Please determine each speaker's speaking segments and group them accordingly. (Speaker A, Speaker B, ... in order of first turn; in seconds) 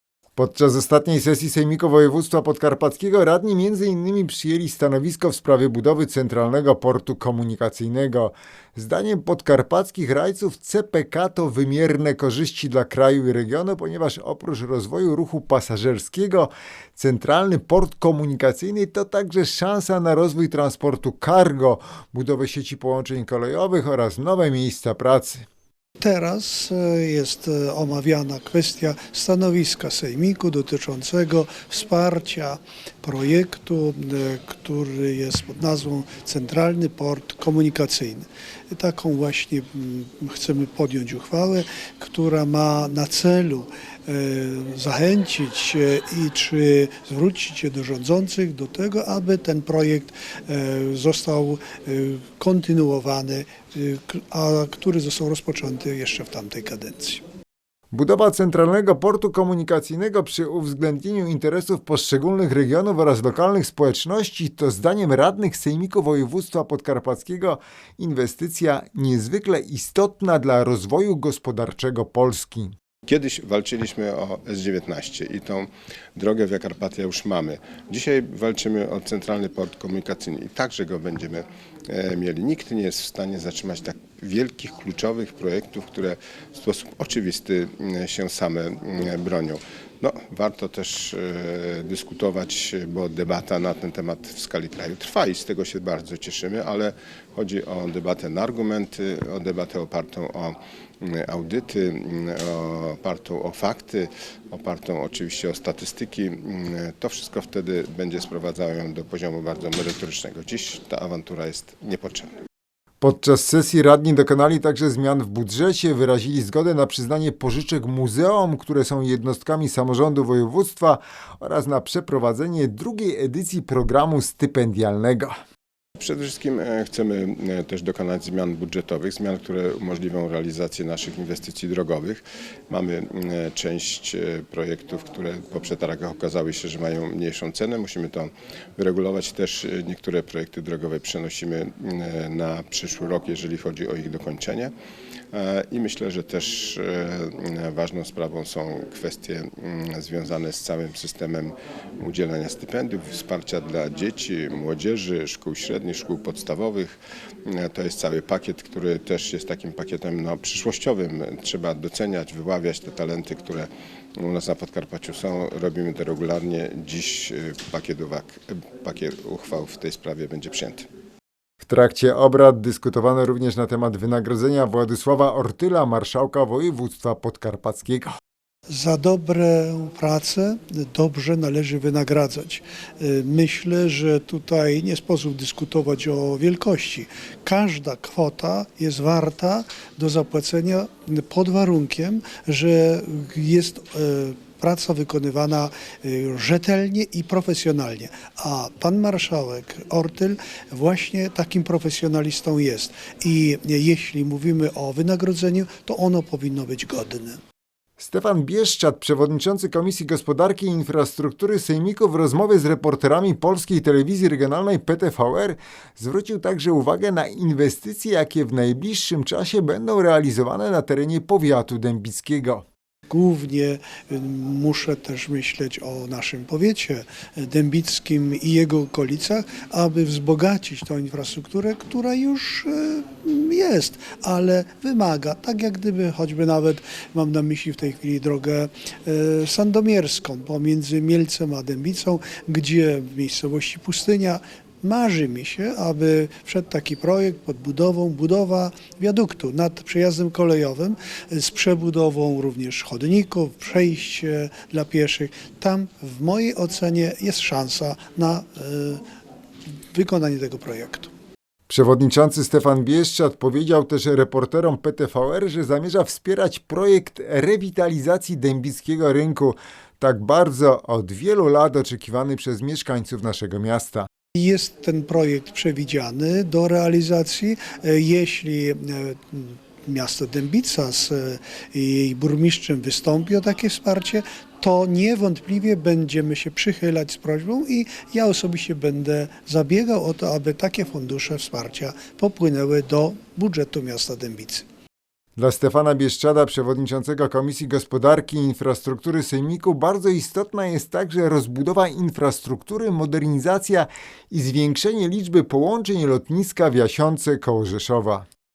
Speaker A: 0.4-25.4, 57.9-72.7, 113.0-125.3, 171.6-178.1, 208.0-222.6, 261.7-274.1, 295.4-308.2
Speaker B: 26.0-57.2, 178.7-207.4, 223.1-259.0, 259.9-261.1, 274.3-294.6
Speaker C: 73.1-112.3, 126.0-144.7, 145.3-170.8